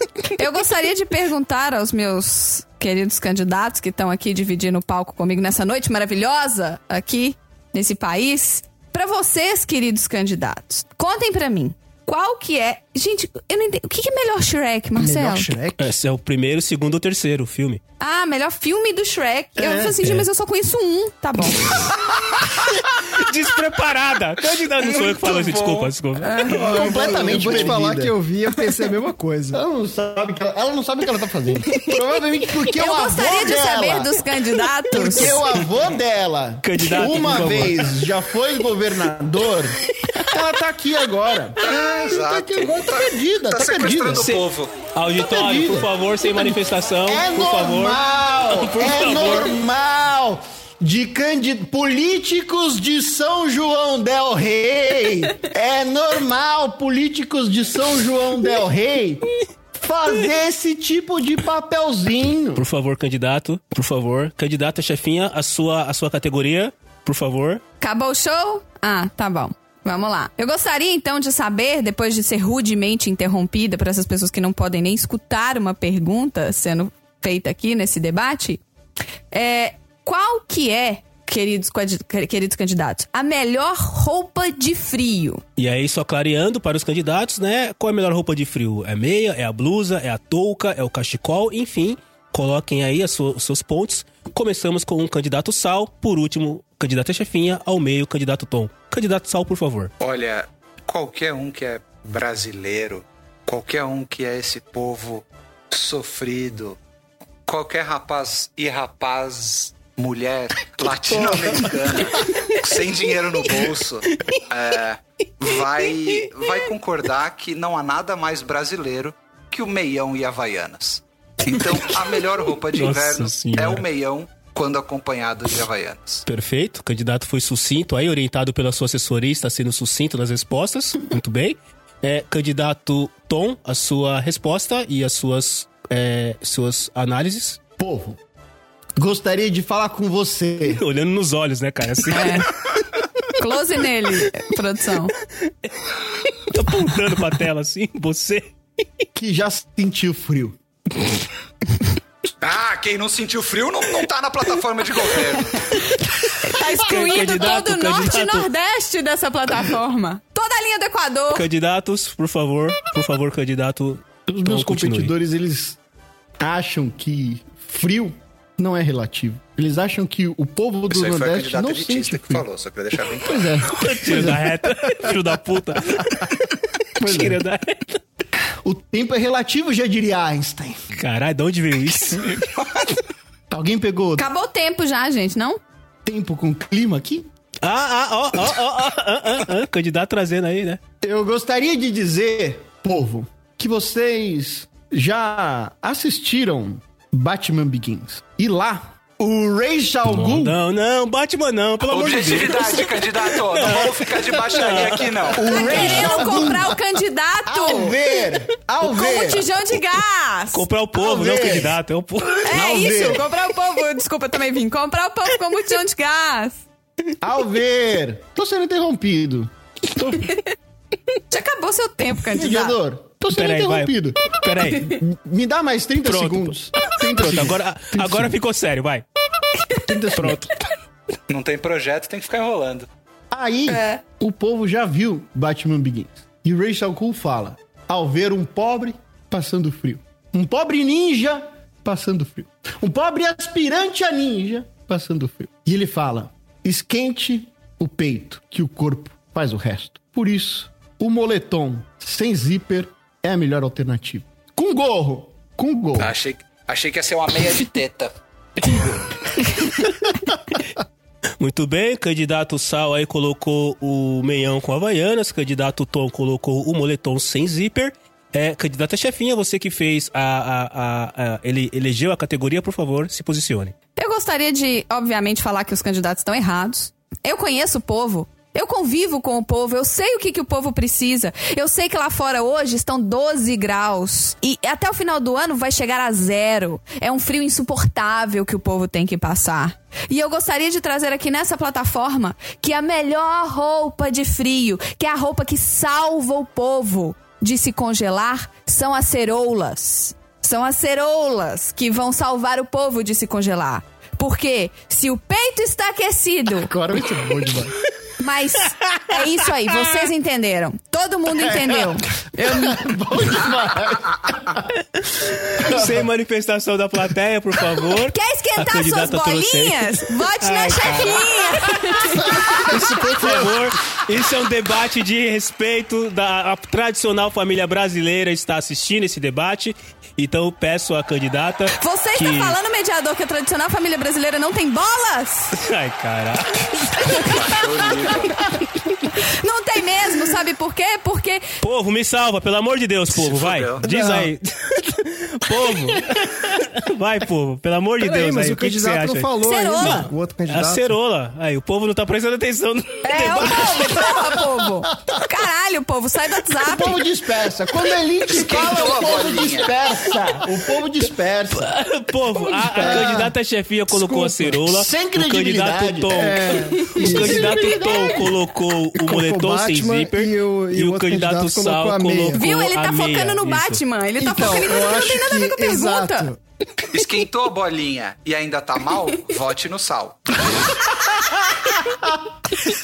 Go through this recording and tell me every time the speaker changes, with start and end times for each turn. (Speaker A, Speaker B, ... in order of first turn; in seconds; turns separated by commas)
Speaker A: 0.3-15.5, Speaker B: 15.0-15.8, Speaker C: 15.8-17.8, Speaker A: 18.0-21.9, Speaker D: 19.6-20.0, Speaker C: 23.1-26.5, Speaker E: 25.1-25.9, Speaker A: 26.2-26.8, Speaker B: 26.5-29.6, Speaker D: 26.6-28.1, Speaker D: 29.5-34.2, Speaker A: 32.8-35.4, Speaker D: 34.9-44.4, Speaker C: 36.6-37.9, Speaker E: 41.6-44.8, Speaker C: 44.2-48.0, Speaker D: 45.2-59.2, Speaker C: 48.5-49.5, Speaker D: 59.7-62.6, Speaker C: 62.5-67.6, Speaker A: 67.8-78.6, Speaker A: 79.3-85.4, Speaker C: 85.6-99.9, Speaker E: 100.0-106.8, Speaker E: 107.5-126.2, Speaker C: 114.1-114.4, Speaker C: 122.7-123.8, Speaker C: 126.2-137.6, Speaker D: 137.8-138.2, Speaker D: 139.0-140.8, Speaker C: 140.7-142.5, Speaker A: 142.1-142.5, Speaker A: 143.3-145.1, Speaker C: 145.7-148.5, Speaker D: 149.1-150.6, Speaker E: 152.4-155.7, Speaker A: 155.7-161.4, Speaker C: 156.8-158.5, Speaker C: 161.3-165.1, Speaker D: 164.3-165.8, Speaker D: 166.4-172.4, Speaker E: 170.9-173.5, Speaker D: 173.2-175.4, Speaker C: 173.8-176.3, Speaker D: 177.0-177.4, Speaker C: 177.0-178.0, Speaker D: 178.4-180.8, Speaker C: 181.0-182.3, Speaker D: 183.5-184.2, Speaker A: 184.2-185.6, Speaker D: 186.0-187.3, Speaker C: 187.6-190.8, Speaker D: 191.0-200.6, Speaker C: 200.1-206.5, Speaker E: 201.8-205.4, Speaker D: 205.3-206.8, Speaker A: 205.4-208.0, Speaker D: 207.5-209.5, Speaker A: 208.8-210.6, Speaker C: 210.5-212.5, Speaker D: 210.9-211.8, Speaker A: 212.4-216.6, Speaker D: 212.5-213.2, Speaker D: 217.2-220.4, Speaker A: 221.3-222.8, Speaker D: 222.3-228.3, Speaker C: 223.3-225.0, Speaker C: 226.0-229.0, Speaker D: 229.8-230.4, Speaker C: 230.1-230.5, Speaker E: 231.3-232.9, Speaker D: 233.3-256.1, Speaker A: 233.7-234.0, Speaker E: 256.0-259.1, Speaker C: 261.4-273.7, Speaker A: 273.9-306.7, Speaker D: 306.6-307.7, Speaker A: 308.2-312.8, Speaker D: 311.5-314.6, Speaker C: 315.2-321.9, Speaker D: 315.6-316.0, Speaker A: 318.1-322.7, Speaker D: 322.4-324.0, Speaker C: 322.5-332.6, Speaker A: 331.8-335.5, Speaker C: 335.5-337.3, Speaker E: 337.2-338.4, Speaker A: 339.2-341.4, Speaker C: 341.6-354.4, Speaker E: 343.1-343.8, Speaker B: 343.8-344.3, Speaker B: 348.0-350.9, Speaker A: 349.4-350.1, Speaker A: 353.0-357.0, Speaker D: 356.6-361.7, Speaker E: 358.3-359.8, Speaker C: 361.5-373.8, Speaker D: 362.3-363.3, Speaker B: 362.8-363.3, Speaker D: 363.9-367.9, Speaker B: 366.1-367.7, Speaker B: 369.0-372.4, Speaker A: 372.3-376.3, Speaker B: 374.2-376.4, Speaker E: 376.9-380.5, Speaker D: 381.8-382.2